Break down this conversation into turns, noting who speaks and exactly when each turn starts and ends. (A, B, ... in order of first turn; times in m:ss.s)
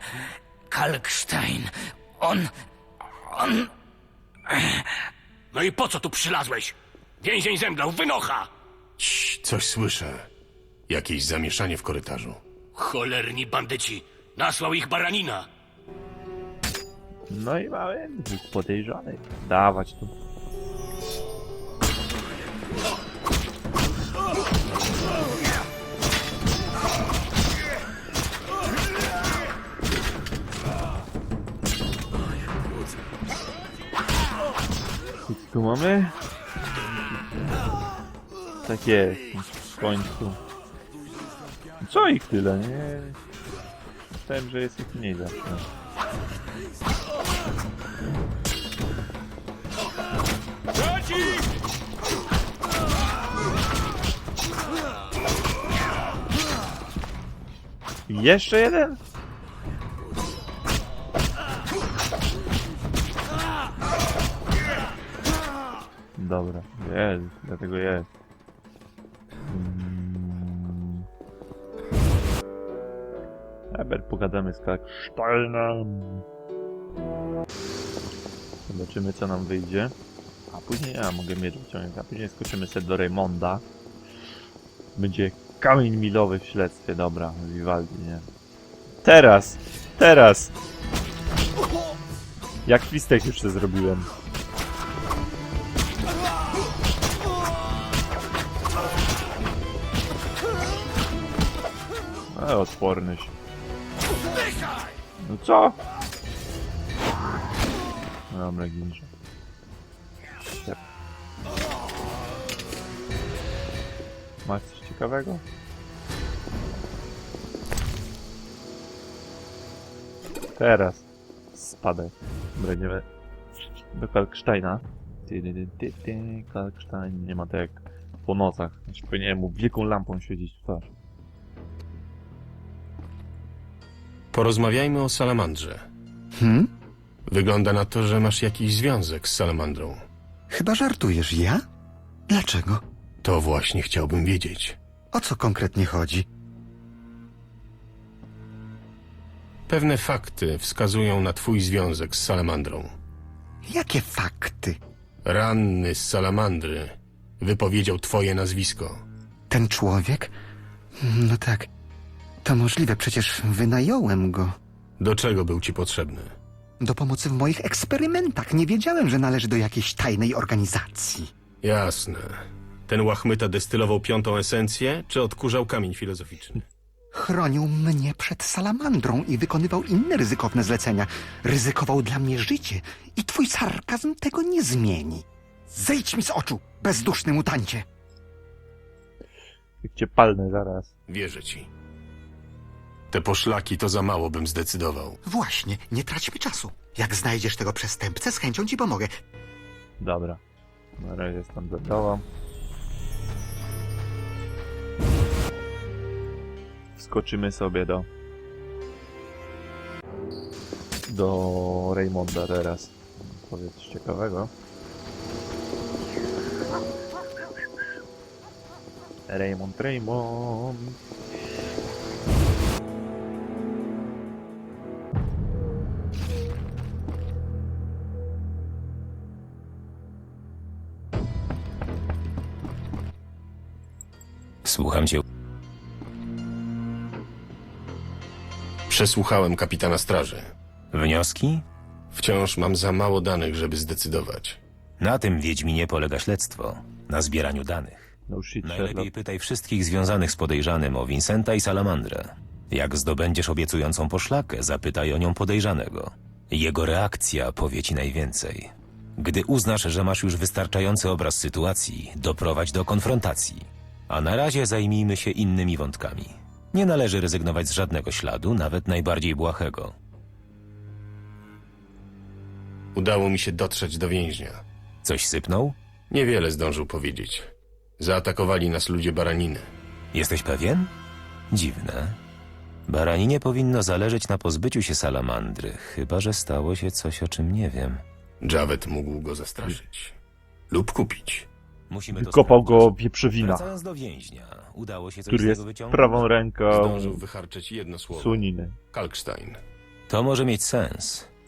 0:00.7-0:01.6 A
0:05.5-0:08.5 A
0:09.0-0:10.3 B
0:10.9-0:12.4 B
0:12.7-0:15.5 A
0:17.3-0:20.1 C
0:35.2-0:36.2 C
0:38.6-0:40.4 C
0:41.8-0:43.2 C
0:44.2-0:45.6 C
0:58.1-0:59.0 C
1:06.2-1:08.1 C
1:09.4-1:11.0 C
1:13.7-1:16.2 C
1:18.7-1:19.9 C
1:20.5-1:23.6 C
1:25.0-1:28.3 C
1:29.0-1:30.5 C
1:32.6-1:34.1 C
1:42.3-1:43.3 C
1:45.2-1:45.8 C
1:48.3-1:49.1 C
1:54.4-1:55.4 C
2:00.6-2:03.0 C
2:03.9-2:10.9 C
2:14.3-2:15.8 B
2:16.4-2:16.7 D
2:17.3-2:20.0 B
2:20.5-2:21.6 D
2:22.3-2:22.8 D
2:23.2-2:24.8 B
2:25.1-2:26.2 D
2:29.7-2:32.9 B
2:33.6-2:34.8 D
2:35.2-2:39.0 B
2:39.5-2:40.3 D
2:41.0-2:41.7 D
2:42.4-2:44.5 D
2:45.0-2:46.3 B
2:46.8-2:51.3 D
2:51.6-2:56.6 B
2:57.1-3:07.8 D
3:09.8-3:10.9 C
3:11.1-3:11.7 B
3:13.1-3:15.2 B
3:15.2-3:19.1 D
3:20.0-3:20.4 C
3:21.0-3:22.2 C
3:27.0-3:28.0 C
3:31.1-3:34.5 C
3:39.3-3:41.0 C
3:54.6-3:55.2 E
3:58.9-4:00.5 B
4:00.9-4:01.6 E
4:02.1-4:04.6 B
4:05.0-4:08.1 E
4:08.3-4:09.1 C
4:08.6-4:29.9 E
4:32.9-4:34.6 B
4:35.0-4:35.7 E
4:36.1-4:37.5 B
4:38.0-4:39.7 B
4:40.1-4:40.9 E
4:41.5-4:42.2 E
4:42.9-4:48.0 E
4:48.4-4:50.2 B
4:50.7-4:51.5 B
4:51.9-4:56.2 E
4:52.1-4:53.7 C
4:55.3-4:57.2 C
4:56.7-4:59.6 B
4:58.1-4:58.8 C
5:00.1-5:01.3 E